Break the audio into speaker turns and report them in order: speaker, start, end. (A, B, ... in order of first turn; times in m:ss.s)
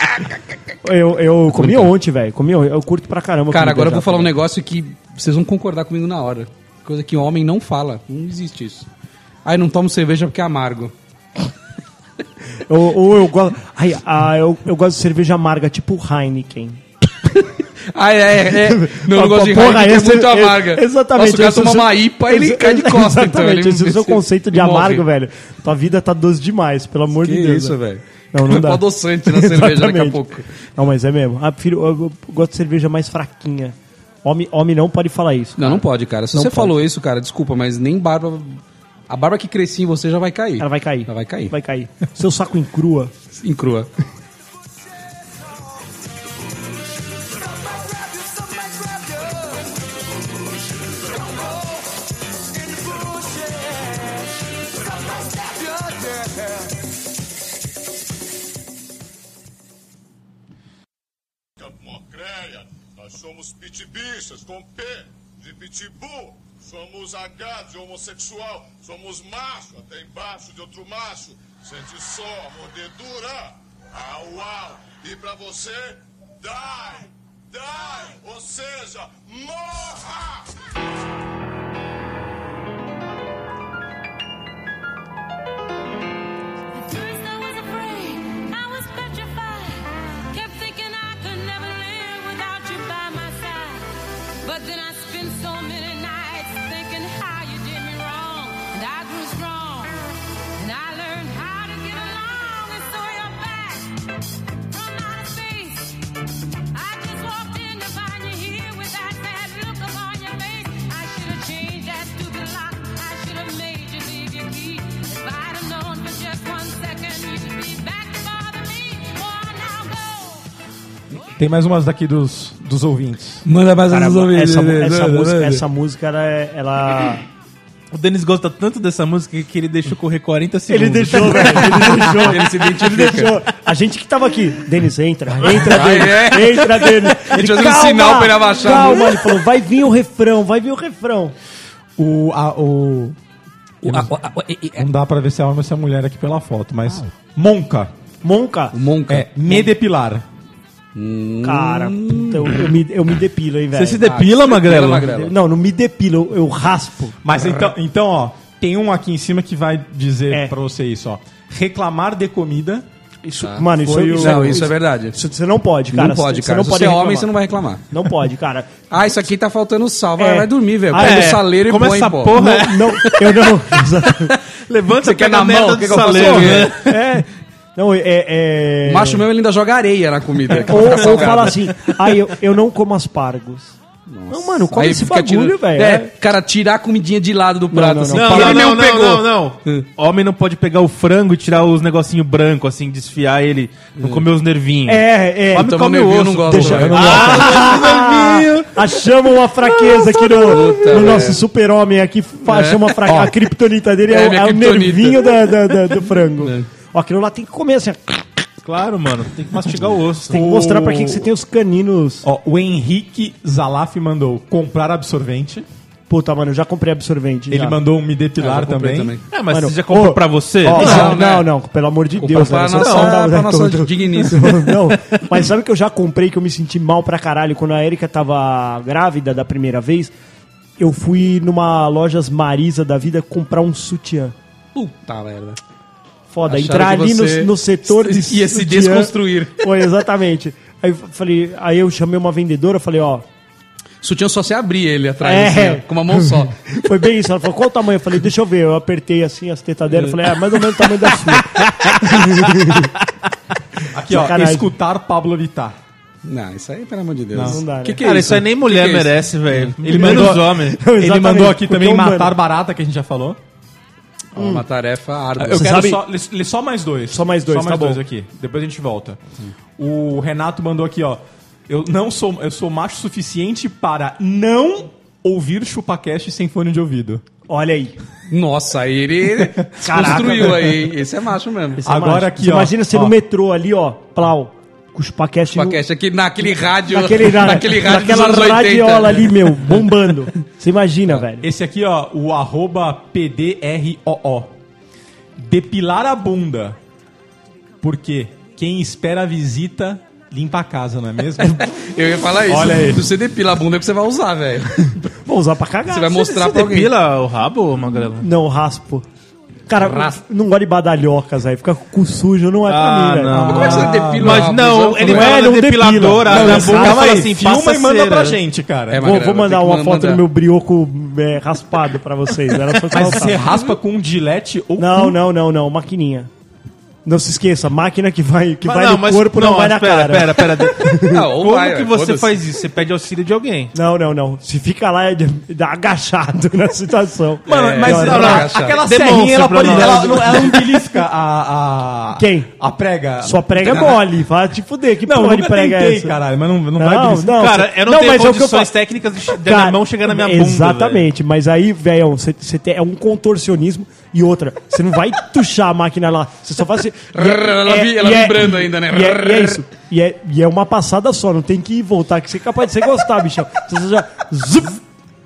0:00.8-0:04.3 A
0:01.5-0:01.9 B
0:03.5-0:08.9 B
0:09.4-0:10.9 B
0:12.7-0:16.8 A
0:17.3-0:25.0 B
0:18.5-0:27.7 A
0:27.2-0:30.5 B
0:28.3-0:36.7 A
0:35.6-0:41.5 B
0:40.6-0:43.1 A
0:43.3-0:43.9 B
1:01.6-1:20.5 C
1:26.7-1:44.0 D
1:44.6-1:46.2 D
1:46.7-2:00.4 D
2:01.4-2:03.4 E
2:03.4-2:05.6 B
2:03.9-2:07.2 A
2:07.9-2:12.1 F
2:10.7-2:21.3 A
2:11.9-2:13.4 B
2:15.4-2:19.3 B
2:22.0-2:23.2 E
2:23.8-2:24.8 B
2:23.8-2:24.1 E
2:24.8-2:27.9 E
2:28.2-2:28.7 A
2:28.7-2:29.7 B
2:29.1-2:30.2 E
2:30.9-2:32.7 B
2:31.4-2:34.0 A
2:33.7-2:35.2 F
2:34.0-2:35.3 B
2:35.2-2:37.2 A
2:37.2-2:42.8 E
2:37.4-2:37.7 B
2:43.2-2:47.3 A
2:43.4-2:45.2 B
2:44.0-2:44.4 F
2:45.9-2:47.8 B
2:47.9-2:48.7 A
2:48.9-2:52.4 B
2:50.2-2:51.4 A
2:50.9-2:53.3 F
2:52.3-2:54.3 A
2:54.2-2:56.9 F
2:55.0-2:56.8 B
2:55.9-2:59.2 A
2:58.8-3:01.6 B
3:00.6-3:03.7 A
3:04.1-3:09.9 B
3:04.3-3:06.1 A
3:07.7-3:08.7 A
3:08.1-3:19.0 F
3:14.0-3:14.2 B
3:14.8-3:15.7 A
3:15.5-3:17.7 B
3:16.4-3:28.4 A
3:19.7-3:21.2 F
3:20.4-3:21.4 B
3:22.4-3:23.3 B
3:24.1-3:26.7 B
3:28.6-3:30.5 F
3:30.3-3:32.3 A
3:30.3-3:31.3 E
3:32.2-3:35.6 E
3:36.1-3:37.8 A
3:37.5-3:39.2 E
3:38.4-3:39.2 B
3:39.3-3:41.2 F
3:39.5-3:50.1 A
3:40.7-3:41.5 B
3:42.2-3:44.6 B
3:42.6-3:43.2 F
3:50.8-3:54.3 A
3:54.7-3:55.6 B
3:56.3-4:03.2 A
3:56.5-3:59.6 B
4:04.0-4:06.5 B
4:05.2-4:12.9 A
4:11.3-4:12.0 F
4:13.8-4:14.7 A
4:13.9-4:15.7 E
4:16.2-4:20.2 B
4:17.3-4:17.6 E
4:17.4-4:18.0 A
4:18.0-4:20.8 F
4:19.8-4:23.4 E
4:19.9-4:22.3 A
4:24.3-4:25.8 B
4:24.4-4:24.6 A
4:25.4-4:29.2 E
4:25.4-4:26.0 A
4:27.1-4:28.0 A
4:29.8-4:37.2 E
4:37.5-4:38.0 A
4:38.3-4:41.8 B
4:39.4-4:40.2 E
4:39.8-4:40.9 A
4:41.8-4:45.8 A
4:41.8-4:43.1 E
4:45.5-4:49.8 B
4:46.4-4:51.4 A
4:51.4-4:54.5 E
4:55.4-4:56.8 E
4:57.8-5:01.6 E
5:01.7-5:05.0 B
5:02.6-5:03.0 F
5:05.1-5:06.6 A
5:05.9-5:06.9 B
5:06.4-5:08.3 F
5:08.2-5:09.0 A
5:09.7-5:13.6 A
5:09.8-5:10.2 B
5:12.6-5:18.4 F
5:13.3-5:14.5 E
5:13.4-5:15.4 B
5:15.0-5:17.2 A
5:16.2-5:19.1 E
5:18.9-5:20.2 B
5:19.0-5:23.4 A
5:22.9-5:25.2 E
5:24.8-5:26.3 A
5:27.0-5:31.2 A
5:28.6-5:33.7 F
5:31.0-5:32.3 B
5:33.7-5:38.5 A
5:37.5-5:38.8 B
5:37.5-5:44.0 E
5:37.9-5:40.6 F
5:42.2-5:42.5 A
5:43.2-5:46.2 A
5:45.0-5:47.4 E
5:46.8-5:48.7 A
5:47.3-5:51.0 F
5:49.3-6:04.8 A
5:57.1-5:59.6 B